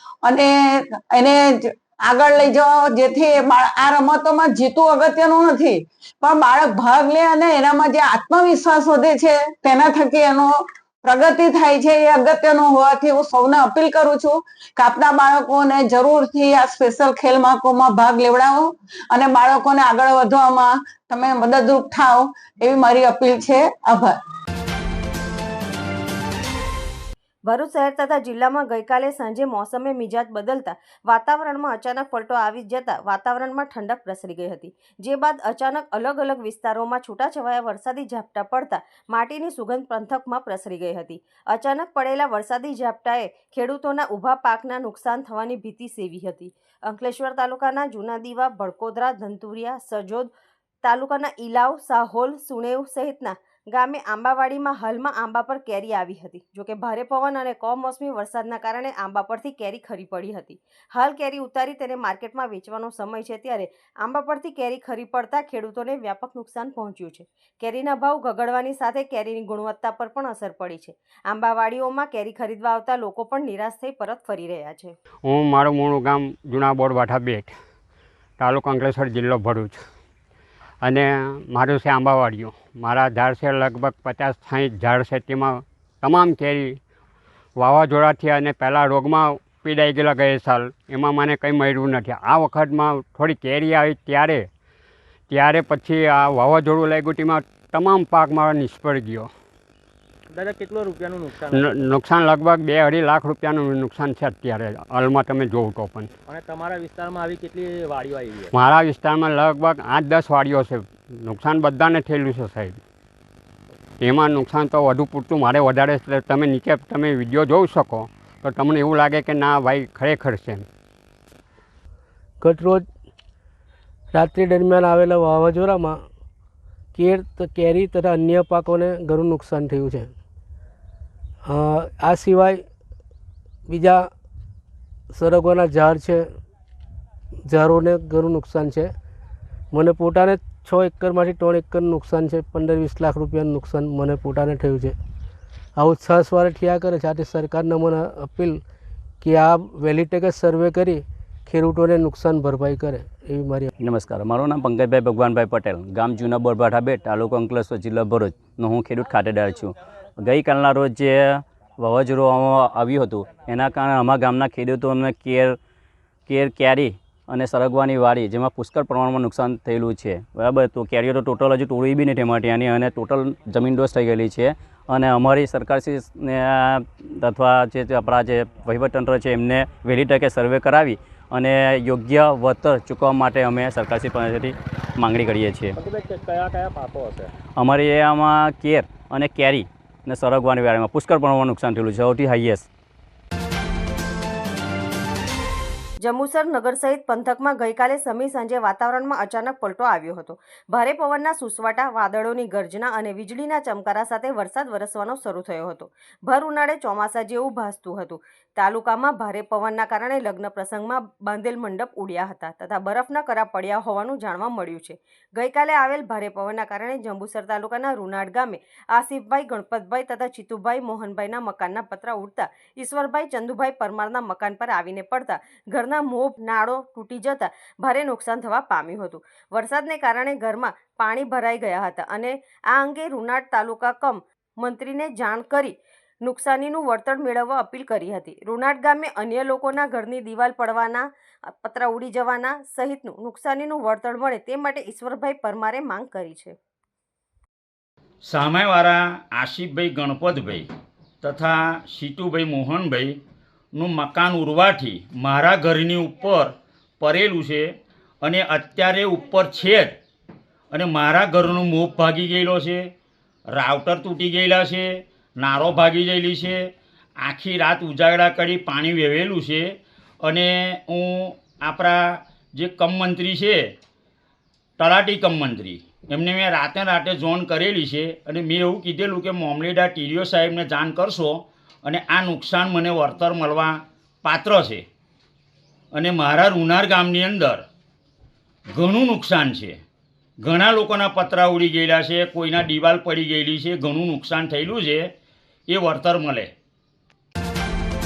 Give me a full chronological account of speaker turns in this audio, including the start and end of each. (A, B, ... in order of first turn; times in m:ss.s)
0:00.2-0:24.2 A
0:27.4-0:50.3 B
0:50.8-1:15.0 B
1:15.2-1:17.5 C
1:18.4-1:19.8 C
1:20.8-1:26.8 C
1:27.6-1:34.5 C
1:35.3-1:39.3 C
1:40.3-1:41.5 D
1:41.4-1:46.1 C
1:46.3-1:48.5 D
1:48.5-1:52.8 C
1:54.0-2:00.7 C
2:02.4-2:02.9 E
2:04.1-2:06.0 E
2:06.9-2:10.1 E
2:11.4-2:12.6 E
2:13.7-2:14.1 E
2:15.1-2:16.3 E
2:17.5-2:18.9 E
2:19.7-2:25.0 E
2:25.8-2:28.6 E
2:29.2-2:33.7 E
2:33.8-2:45.6 F
2:46.3-3:05.8 F
3:05.8-3:07.3 D
3:07.6-3:12.7 F
3:16.0-4:06.6 B
4:08.2-4:10.7 G
4:11.2-4:13.2 G
4:13.7-4:20.0 G
4:20.7-4:22.9 G
4:23.5-4:33.7 G
4:34.8-4:44.8 G
4:45.9-4:47.6 G
4:48.7-4:49.8 G
4:50.4-4:55.1 G
4:55.7-4:56.5 G